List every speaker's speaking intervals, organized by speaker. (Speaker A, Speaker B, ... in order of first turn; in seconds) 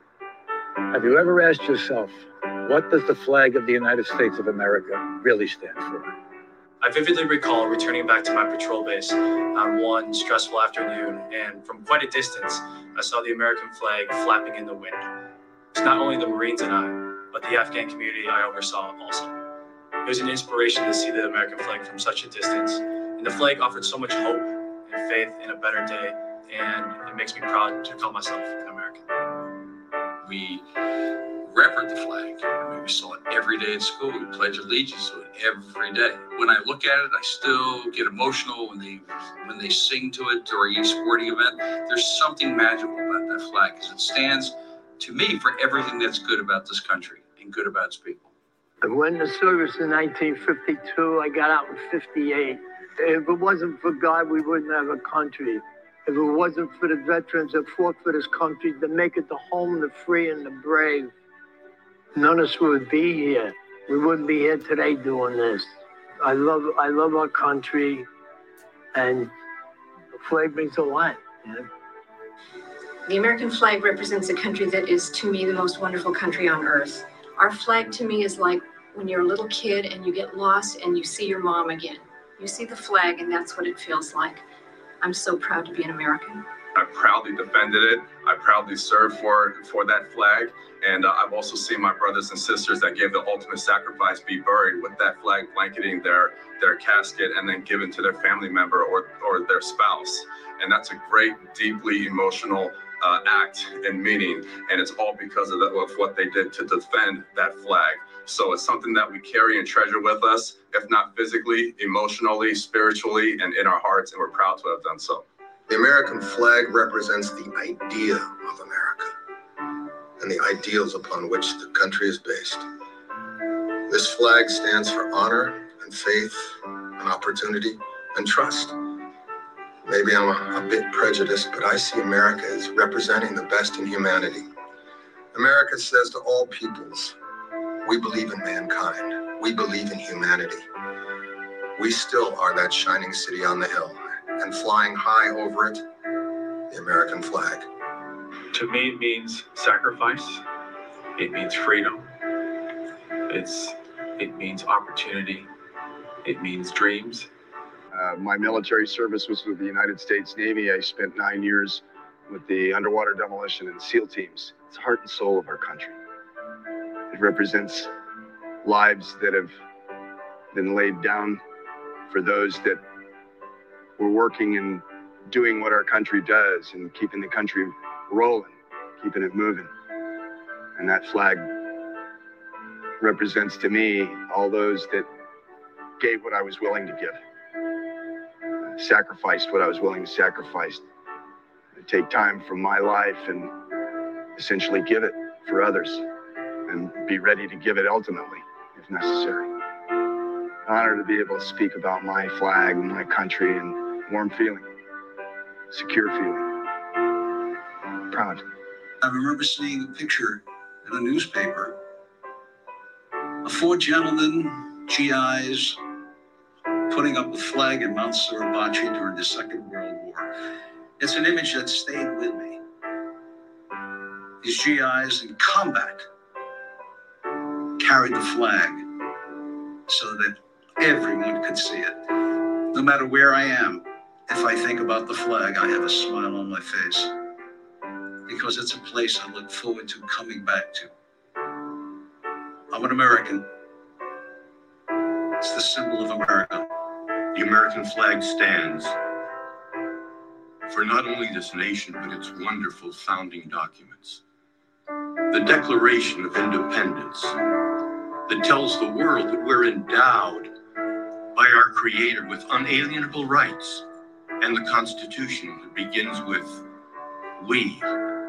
Speaker A: 0.9-6.1
Speaker B: 6.8-15.1, 15.7-19.3, 20.0-29.0
Speaker C: 30.2-30.6, 31.4-48.3, 209.0-211.8, 213.4-215.8, 216.9-220.3, 221.0-222.6, 224.4-226.1, 227.8-228.9, 229.9-232.0, 232.7-237.1, 238.2-240.9, 242.7-243.5, 245.4-246.7
Speaker D: 48.8-61.1, 62.1-68.1, 68.9-69.3, 70.1-71.7
Speaker E: 73.0-84.4, 85.0-86.4
Speaker F: 86.7-115.2
Speaker G: 115.7-119.1, 120.2-122.7, 123.9-128.8, 129.8-134.5, 135.3-137.1, 137.8-140.7, 141.8-145.8, 146.7-147.7
Speaker H: 148.5-150.4, 151.2-152.1, 153.3-155.5, 156.2-157.3
Speaker I: 157.9-166.0, 167.1-167.9, 168.6-169.6, 170.5-171.4, 172.1-172.8, 174.0-179.7, 180.8-181.5, 183.0-185.1, 186.0-187.2, 188.6-190.8, 191.7-193.5, 194.3-196.0, 196.7-199.5, 200.7-204.7, 205.7-206.5, 208.1-208.4
Speaker J: 247.3-249.0, 250.7-254.2, 255.3-257.4, 258.3-260.5, 261.3-263.8, 264.4-266.6, 267.4-267.9